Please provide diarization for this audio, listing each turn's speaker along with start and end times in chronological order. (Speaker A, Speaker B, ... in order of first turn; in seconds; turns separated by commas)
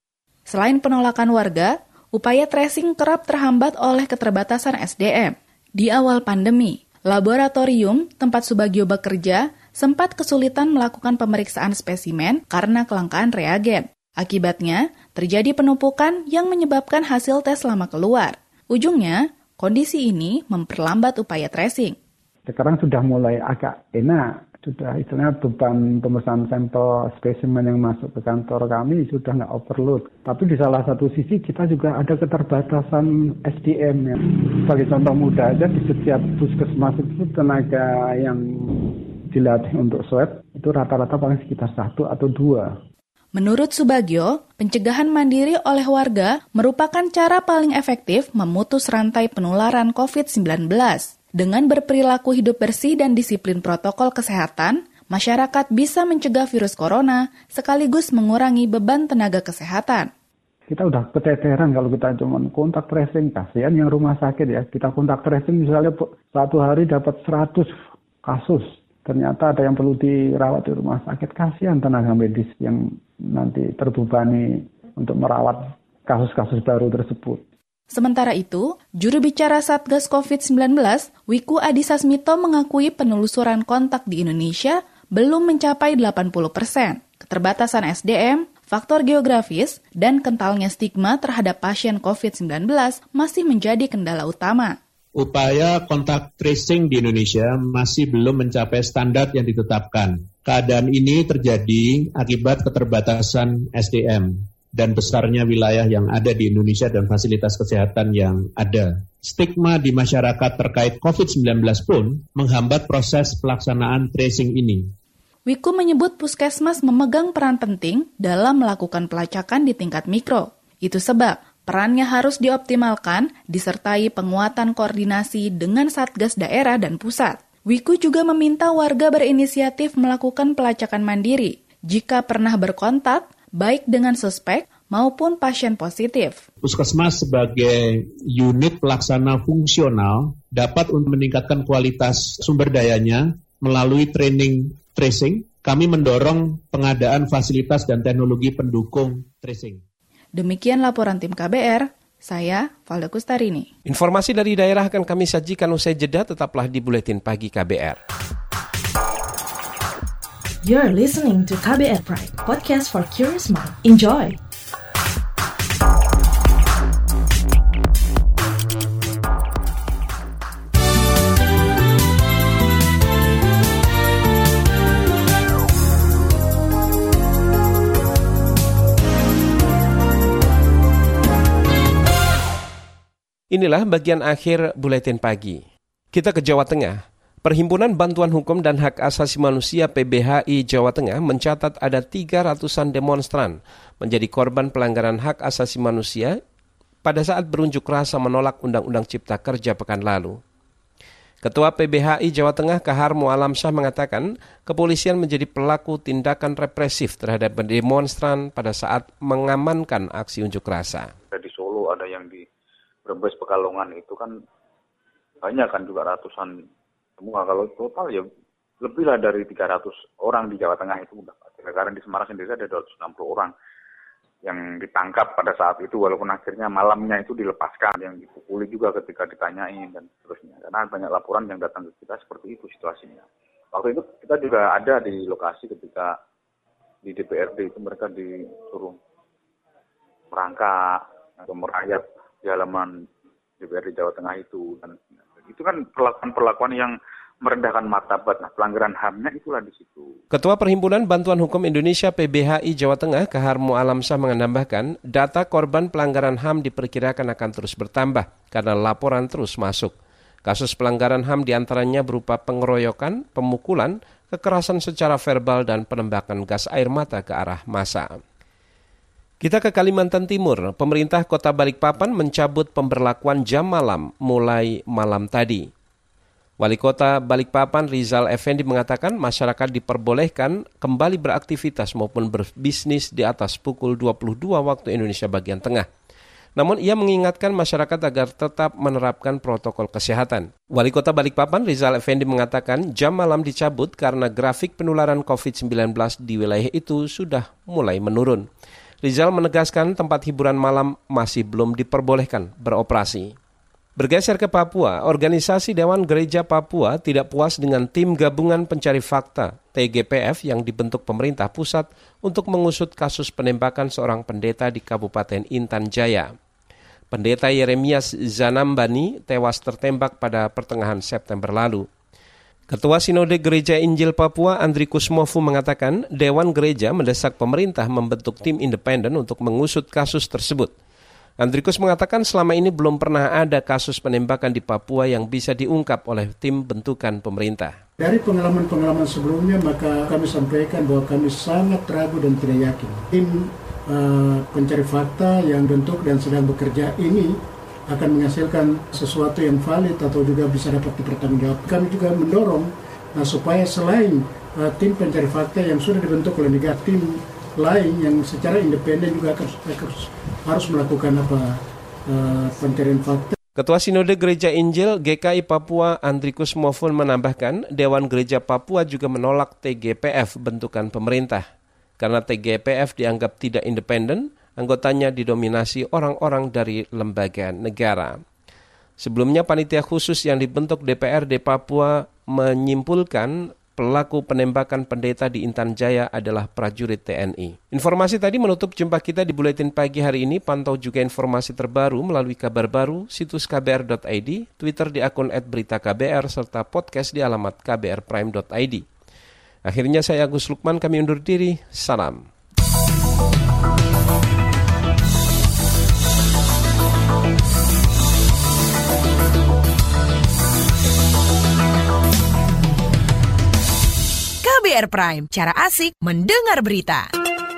Speaker A: 0.5-22.0, Speaker B: 22.4-42.7, Speaker A: 43.4-60.1, Speaker B: 60.7-67.7, Speaker B: 68.2-77.4, Speaker A: 77.9-94.8, Speaker C: 95.2-114.9, Speaker A: 115.5-136.4, Speaker C: 136.6-149.8, Speaker A: 150.4-153.7, Speaker D: 153.8-158.0, Speaker E: 160.6-164.4, Speaker D: 183.5-185.6, Speaker D: 186.1-196.4, Speaker D: 197.0-200.4, Speaker D: 201.4-211.1, Speaker F: 211.3-212.4, Speaker F: 213.0-214.3, Speaker F: 215.4-216.6, Speaker F: 217.2-218.2, Speaker F: 218.8-223.5, Speaker F: 224.4-236.2, Speaker F: 237.0-239.0, Speaker F: 240.3-242.9, Speaker F: 243.6-250.1, Speaker D: 250.3-259.9, Speaker D: 260.4-268.1, Speaker D: 269.4-275.7, Speaker D: 276.6-285.9, Speaker D: 286.6-298.4, Speaker D: 299.0-303.3, Speaker D: 304.0-316.3, Speaker D: 317.1-321.9, Speaker D: 322.7-330.7, Speaker D: 331.4-337.7, Speaker G: 338.0-347.4, Speaker G: 347.9-363.3, Speaker D: 363.6-371.4, Speaker D: 372.0-378.2, Speaker D: 379.0-398.8, Speaker D: 399.6-402.2, Speaker H: 414.4-417.1